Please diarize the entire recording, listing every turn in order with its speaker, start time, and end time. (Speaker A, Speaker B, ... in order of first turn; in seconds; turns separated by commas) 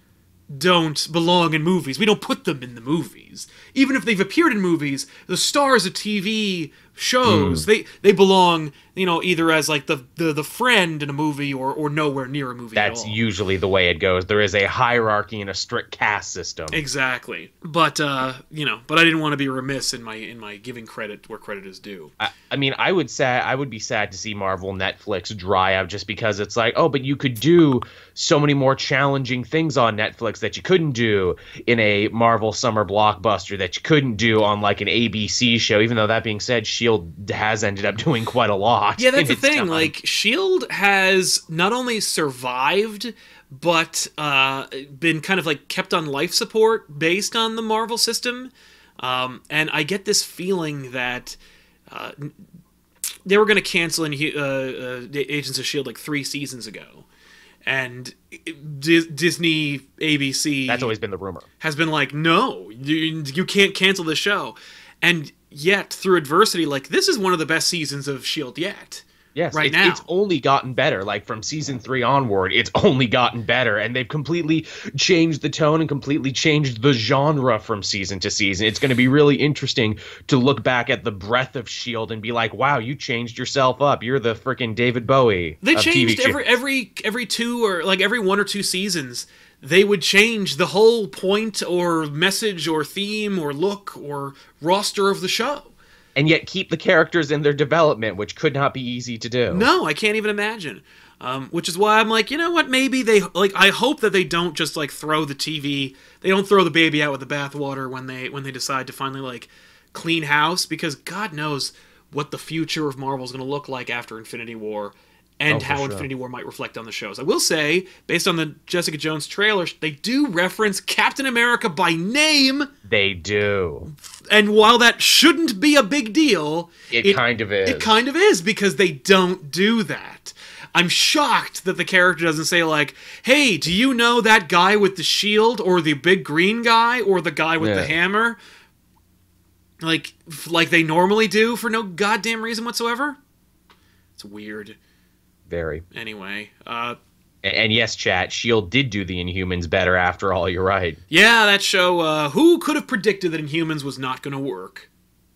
Speaker A: 0.5-13.2, Speaker B: 7.2-7.6, Speaker B: 12.8-16.8, Speaker A: 16.7-22.1, Speaker B: 22.2-39.9, Speaker A: 39.0-51.4, Speaker A: 51.9-52.3, Speaker A: 53.2-57.0, Speaker A: 57.6-60.9, Speaker B: 60.7-61.5, Speaker A: 61.6-70.0, Speaker B: 69.3-86.4, Speaker A: 85.6-95.7, Speaker B: 96.2-99.7, Speaker A: 99.5-122.7, Speaker B: 115.5-116.1, Speaker B: 122.8-123.9, Speaker A: 124.3-138.4, Speaker B: 126.9-127.9, Speaker B: 137.6-137.9, Speaker A: 139.8-143.2, Speaker A: 144.2-144.8, Speaker B: 145.5-145.8, Speaker A: 145.9-147.0, Speaker B: 147.4-151.0, Speaker A: 151.1-154.9